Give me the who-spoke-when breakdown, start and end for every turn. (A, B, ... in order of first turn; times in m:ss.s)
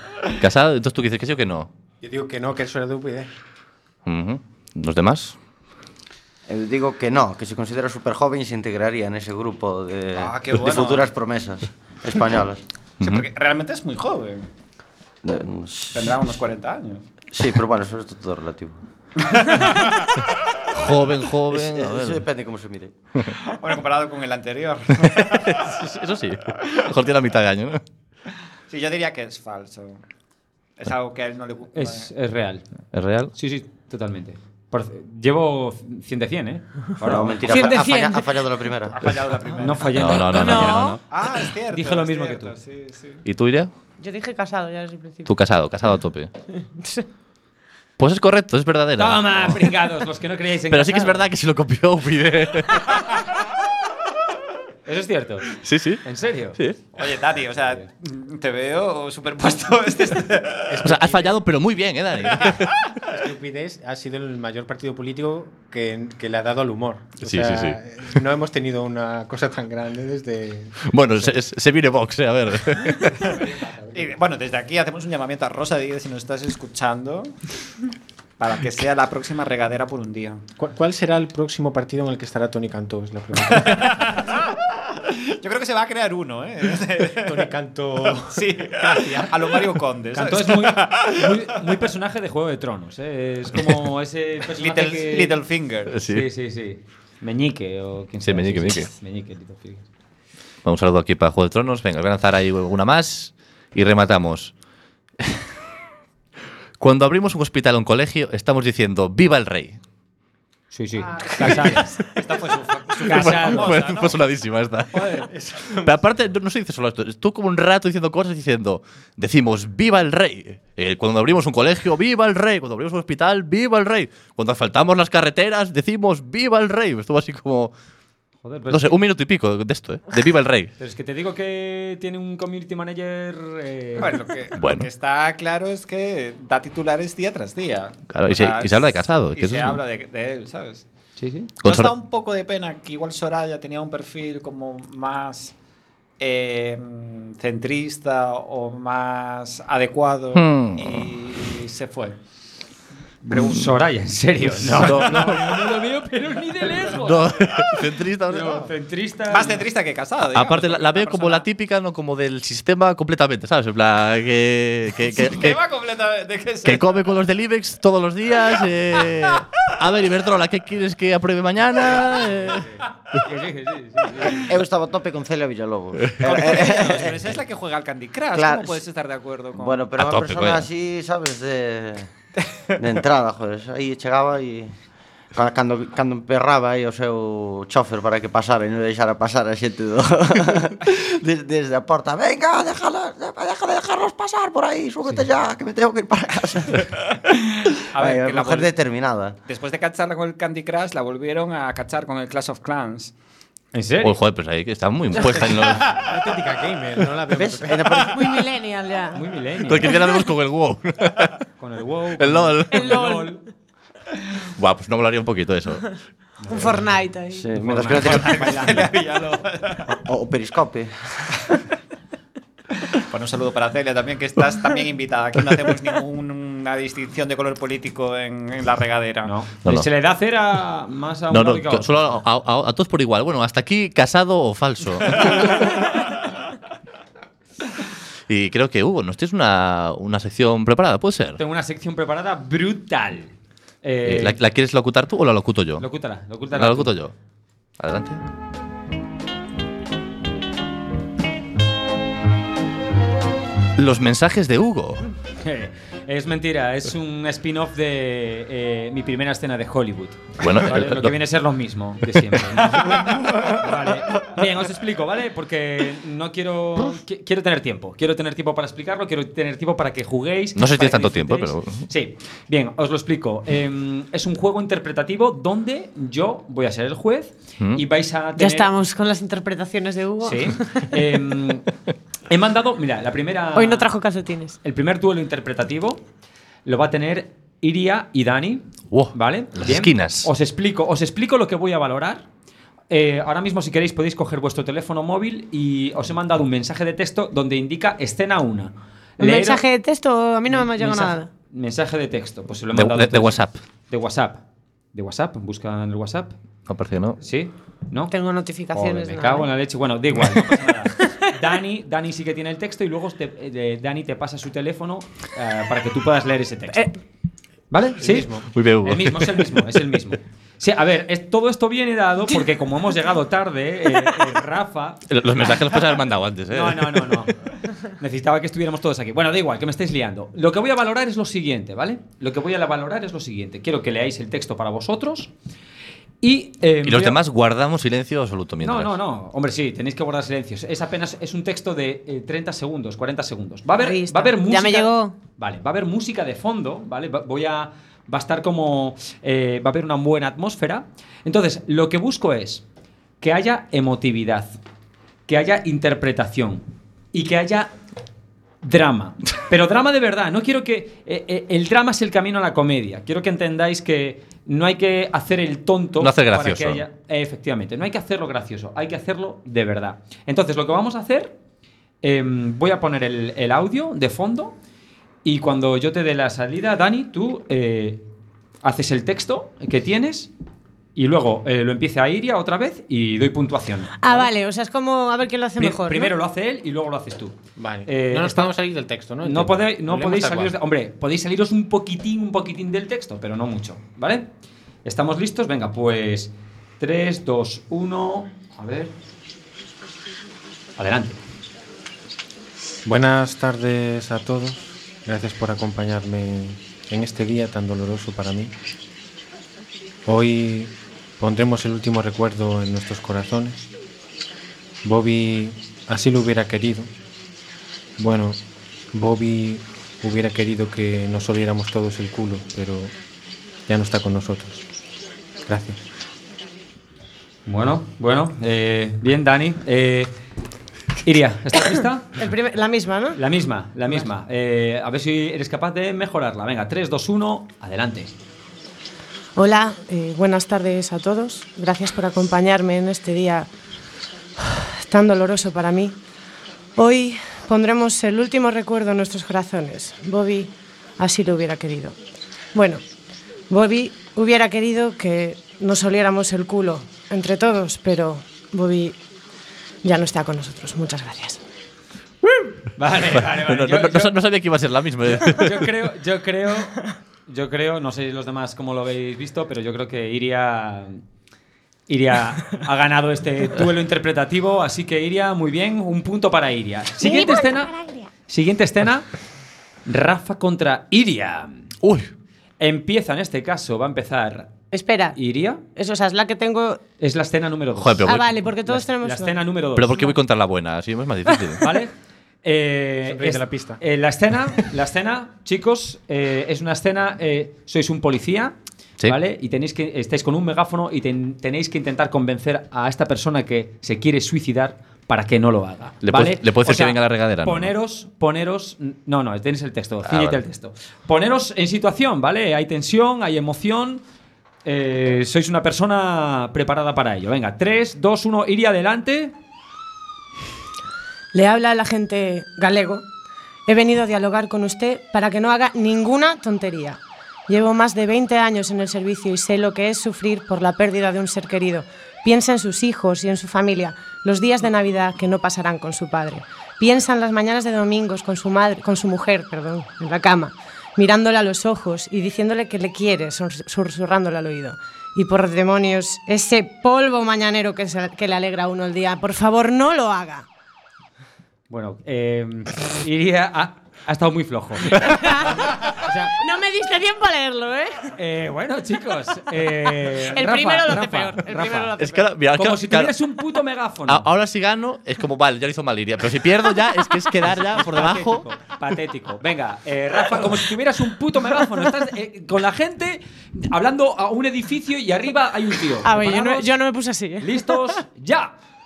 0:00.4-0:01.7 A
0:02.0-0:03.3 B
0:04.1-0:05.4 A
0:06.5-0:12.6 C
0:10.2-0:11.1 D
0:13.0-0:13.2 A
0:13.0-0:14.4 D
0:15.2-0:16.1 C
0:15.9-0:17.0 D
0:17.3-0:18.8 C
0:19.3-0:19.9 D
0:20.7-0:22.2 A
0:21.5-0:22.9 C
0:23.4-0:25.7 D
0:25.0-0:27.8 A
0:28.7-0:30.0 D
0:30.8-0:32.1 D
0:31.7-0:32.6 E
0:32.9-0:33.3 A
0:33.4-0:37.7 E
0:37.0-0:39.0 C
0:37.5-0:38.3 F
0:39.0-0:40.2 D
0:39.6-0:41.0 E
0:40.0-0:41.0 A
0:40.3-0:41.0 F
0:41.1-0:43.2 D
0:41.7-0:42.5 E
0:43.2-0:43.7 A
0:44.0-0:45.3 F
0:45.3-0:46.3 A
0:48.0-0:49.7 A
0:49.0-0:51.3 E
0:50.7-0:53.2 A
0:54.9-0:55.5 E
0:55.5-0:56.0 A
0:56.0-0:56.6 E
0:57.0-1:00.8 D
1:00.7-1:01.4 B
1:00.8-1:02.9 A
1:03.1-1:11.4 B
1:07.2-1:07.8 A
1:10.9-1:13.3 A
1:13.2-1:14.2 B
1:13.9-1:17.4 D
1:18.4-1:20.4 D
1:20.6-1:24.1 B
1:23.6-1:24.4 D
1:25.0-1:27.5 D
1:27.2-1:28.5 B
1:28.2-1:31.4 D
1:30.1-1:35.4 E
1:34.5-1:36.0 D
1:35.9-1:36.3 A
1:36.1-1:39.9 E
1:38.2-1:38.9 A
1:40.6-1:44.5 A
1:46.8-1:49.8 A
1:50.7-1:51.9 E
1:51.4-1:54.2 D
1:53.0-1:53.8 E
1:53.0-2:07.7 A
1:55.3-1:56.0 B
2:08.4-2:09.0 E
2:08.7-2:10.7 A
2:10.8-2:14.1 E
2:14.0-2:20.8 D
2:14.6-2:14.9 A
2:18.1-2:19.8 A
2:21.2-2:21.5 E
2:21.6-2:21.9 A
2:21.6-2:25.5 D
2:26.2-2:32.2 D
2:30.3-2:31.1 A
2:33.2-2:37.4 E
2:33.4-2:33.6 A
2:34.5-2:35.8 A
2:37.0-2:38.7 A
2:38.3-2:39.7 E
2:39.3-2:41.4 D
2:40.3-2:45.6 A
2:45.1-2:46.8 D
2:46.6-2:52.7 A
2:53.2-2:54.5 E
2:54.3-2:57.4 C
2:56.2-2:59.8 D
2:58.3-2:58.8 C
2:59.5-3:02.1 C
3:00.0-3:00.7 A
3:02.8-3:04.7 C
3:05.3-3:17.0 C
3:17.9-3:18.7 D
3:17.9-3:19.4 C
3:19.5-3:23.1 D
3:23.7-3:24.2 E
3:24.0-3:25.9 A
3:25.9-3:28.2 B
3:27.3-3:28.3 C
3:28.1-3:29.2 F
3:29.1-3:29.9 E
3:29.7-3:31.4 A
3:31.6-3:33.4 E
3:32.2-3:33.0 A
3:32.7-3:33.4 F
3:34.6-3:36.0 A
3:36.4-3:36.9 E
3:36.5-3:37.5 F
3:37.3-3:38.8 C
3:37.5-3:38.9 E
3:38.0-3:39.9 D
3:39.9-3:41.4 C
3:42.9-3:49.4 D
3:49.2-3:52.1 E
3:51.3-3:55.8 A
3:58.3-4:01.4 A
4:01.4-4:04.4 E
4:04.0-4:05.9 A
4:05.8-4:07.0 E
4:06.5-4:07.1 A
4:07.8-4:08.2 A
4:13.8-4:15.1 A
4:15.4-4:38.7 E
4:20.4-4:21.2 A
4:30.6-4:31.9 A
4:38.4-4:40.9 F
4:40.2-4:41.7 E
4:42.3-4:43.9 E
4:43.6-4:44.6 F
4:44.6-4:46.0 E
4:46.6-4:52.3 E
4:48.9-4:50.3 A
4:52.9-4:59.6 E
4:59.2-5:01.3 F
5:00.5-5:04.4 E
5:02.7-5:03.6 A
5:04.9-5:06.3 E
5:06.7-5:07.2 A
5:07.2-5:08.1 E
5:08.1-5:09.5 F
5:08.7-5:16.9 E
5:17.7-5:18.3 E
5:18.0-5:18.5 B
5:18.5-5:19.5 A
5:18.8-5:25.0 E
5:25.1-5:27.3 A
5:26.5-5:35.3 E
5:36.2-5:37.2 E
5:36.8-5:39.0 A
5:38.6-5:52.6 E
5:43.8-5:45.2 F
5:53.2-5:54.6 E
5:55.3-5:57.7 E
5:58.6-6:11.4 E
6:06.0-6:06.8 A
6:12.0-6:14.6 E
6:15.2-6:18.0 E
6:18.6-6:20.3 E
6:21.0-6:24.3 E
6:24.0-6:26.1 F
6:25.6-6:28.5 E
6:27.6-6:30.6 B
6:29.2-6:34.3 E
6:34.8-6:38.9 E
6:40.8-6:41.2 E
6:42.8-6:48.5 B
6:50.1-6:53.6 B
6:54.8-6:56.9 B
6:58.0-6:58.4 B
6:58.9-7:02.9 B
7:03.7-7:04.7 B
7:05.5-7:05.8 B
7:07.5-7:10.1 E
7:11.0-7:12.1 E
7:12.2-7:13.2 F
7:13.2-7:18.1 E
7:19.4-7:23.5 F
7:24.4-7:26.0 F
7:26.8-7:32.0 F
7:32.6-7:32.8 F
7:33.5-7:39.0 F
7:39.8-7:41.4 F
7:42.8-7:44.2 E
7:43.2-7:45.7 A
7:45.1-7:51.0 E
7:51.9-7:59.1 E
7:57.0-7:57.9 F
7:59.9-8:01.6 E
8:01.8-8:02.1 A
8:02.6-8:04.6 E
8:04.7-8:05.2 F
8:05.2-8:05.6 E
8:05.8-8:06.8 F
8:07.0-8:08.1 E
8:07.8-8:08.4 A
8:08.0-8:09.4 F
8:08.7-8:10.0 E
8:09.8-8:11.6 A
8:11.6-8:11.9 E
8:12.4-8:34.0 E
8:13.1-8:13.8 B
8:26.0-8:27.7 A
8:30.1-8:30.4 A
8:34.6-8:39.4 E
8:41.3-8:43.0 F
8:43.7-9:10.5 F
9:11.7-9:15.2 E
9:15.0-9:18.1 F
9:16.0-9:16.4 E
9:18.2-9:22.0 E
9:20.2-9:22.2 F
9:22.0-9:23.1 A
9:22.6-9:24.3 E
9:24.1-9:28.4 A
9:27.4-9:36.7 E
9:36.0-9:37.7 F
9:37.4-9:38.5 E